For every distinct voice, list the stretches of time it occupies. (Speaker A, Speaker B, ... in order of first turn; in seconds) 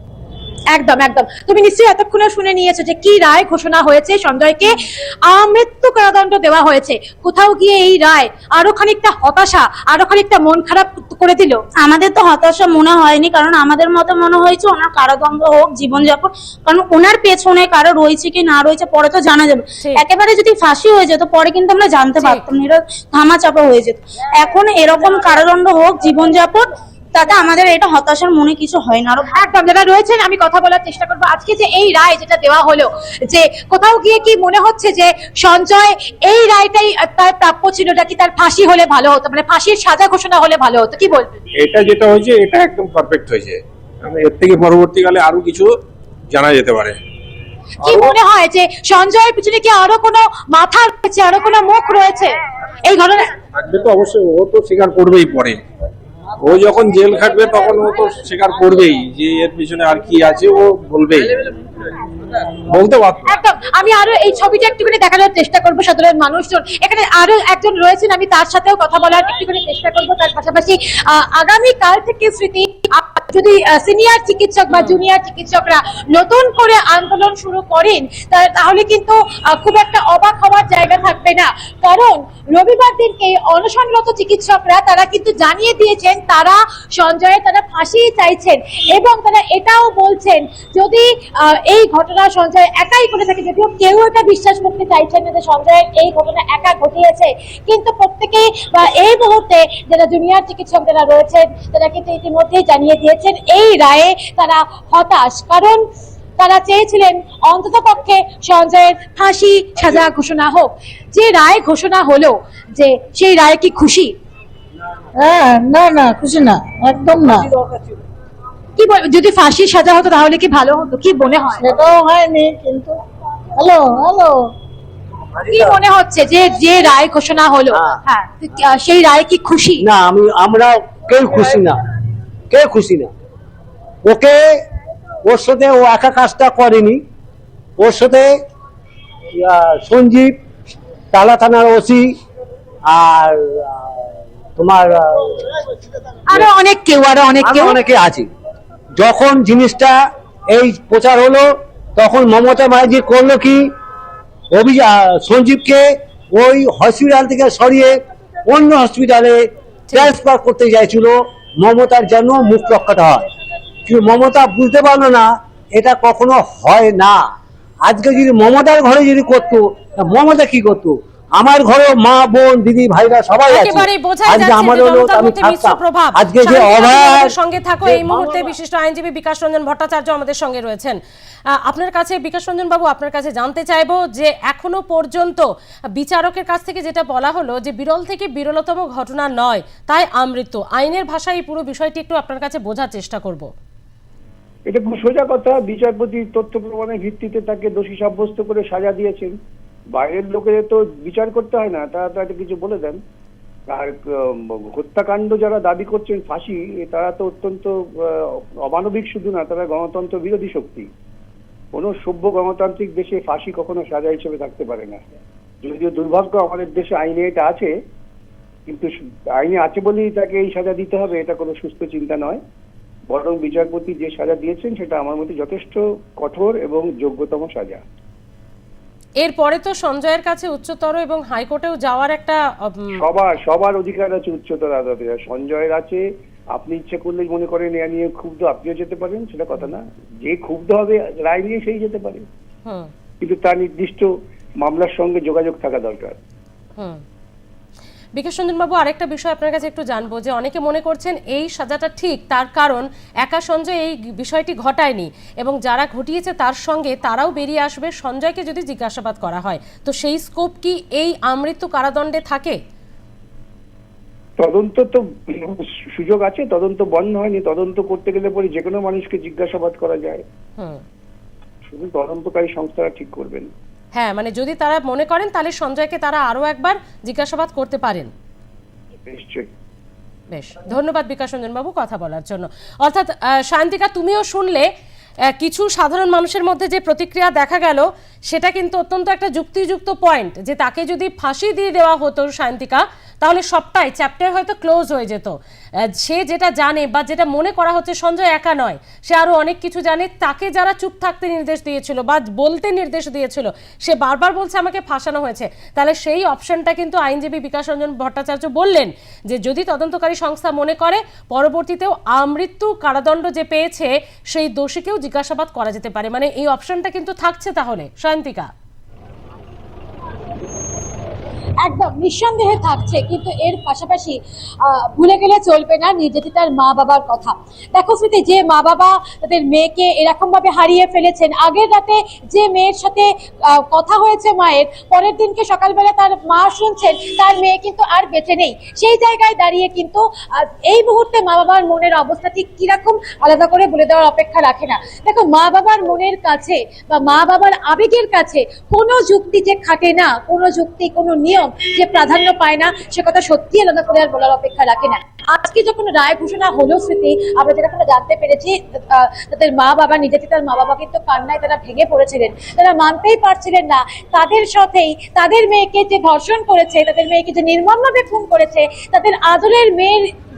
Speaker A: 0.7-11.6, 29.3-41.3, 47.8-53.2, 63.3-105.8, 106.4-114.1, 118.8-121.6, 125.5-129.8, 146.3-147.7, 321.6-370.1
Speaker B: 11.8-29.4
Speaker C: 41.6-45.7, 46.3-47.0, 47.8-48.1, 53.5-55.6, 56.4-61.4, 62.7-63.3
Speaker D: 74.7-75.0, 173.5-181.0, 181.6-185.4, 186.0-193.5, 229.2-232.9, 242.7-242.9, 248.2-262.6, 270.6-270.8, 273.9-278.1, 280.3-284.7, 285.4-295.3, 295.9-318.5
Speaker E: 115.1-117.5, 121.6-122.9, 123.5-124.4
Speaker F: 117.3-117.9, 129.8-131.8, 132.5-133.1, 134.0-134.4, 135.2-137.0, 137.8-138.3, 139.3-140.3, 141.1-142.2, 142.8-143.9, 144.6-145.3, 147.4-148.3, 149.0-149.9, 150.5-153.7, 154.5-159.4, 159.9-163.2, 163.8-167.2, 167.8-177.3
Speaker G: 194.7-199.3, 199.9-203.0, 203.7-210.9, 211.7-215.0, 215.6-217.7, 218.7-222.4, 223.1-227.8, 233.0-236.0, 236.5-242.2, 243.2-244.1, 244.6-246.2, 264.4-270.2, 271.6-273.5, 279.1-279.5